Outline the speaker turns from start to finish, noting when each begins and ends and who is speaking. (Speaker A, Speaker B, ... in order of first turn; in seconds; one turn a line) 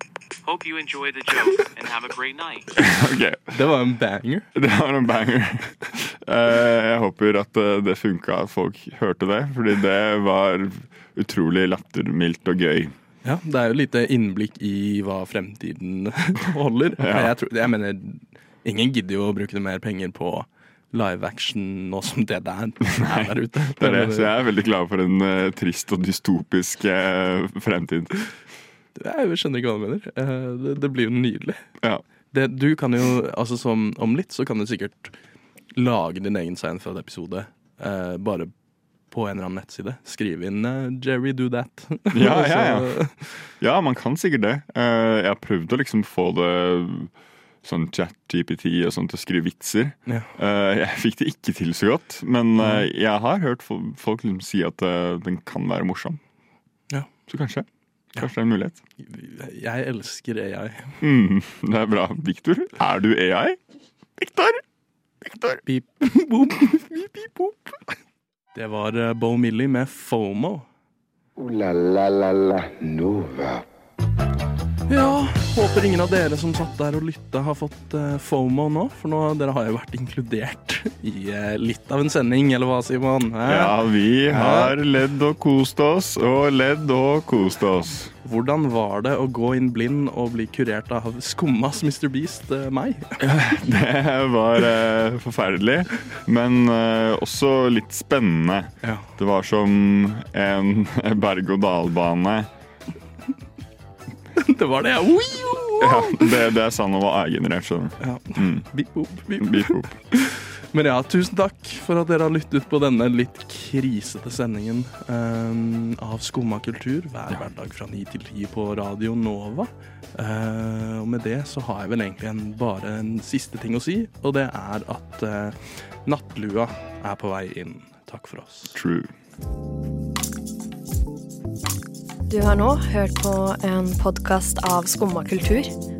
Speaker A: 0.4-2.7
Speaker B: 2.8-3.6
Speaker C: 3.5-4.5
Speaker B: 4.5-12.9
Speaker C: 13.2-24.3
Speaker B: 17.0-17.3
Speaker B: 22.8-28.1
Speaker C: 28.9-31.6
Speaker C: 32.3-35.1
Speaker C: 35.7-38.5
Speaker C: 39.1-43.1
Speaker B: 42.1-47.1
Speaker B: 47.6-56.2
Speaker C: 50.0-50.3
Speaker C: 52.6-52.9
Speaker B: 57.3-58.8
Speaker C: 59.0-61.0
Speaker B: 61.0-63.6
Speaker B: 64.2-64.6
Speaker B: 65.2-65.6
Speaker C: 65.7-67.8
Speaker C: 68.5-70.7
Speaker D: 71.4-73.6
Speaker C: 74.9-84.7
Speaker B: 83.4-88.1
Speaker C: 88.2-93.2
Speaker B: 93.2-102.5
Speaker C: 98.8-99.1
Speaker C: 104.4-106.3
Speaker B: 105.8-108.7
Speaker C: 108.0-128.8
Speaker B: 109.4-110.0
Speaker B: 128.7-129.1
Speaker E: 132.3-135.7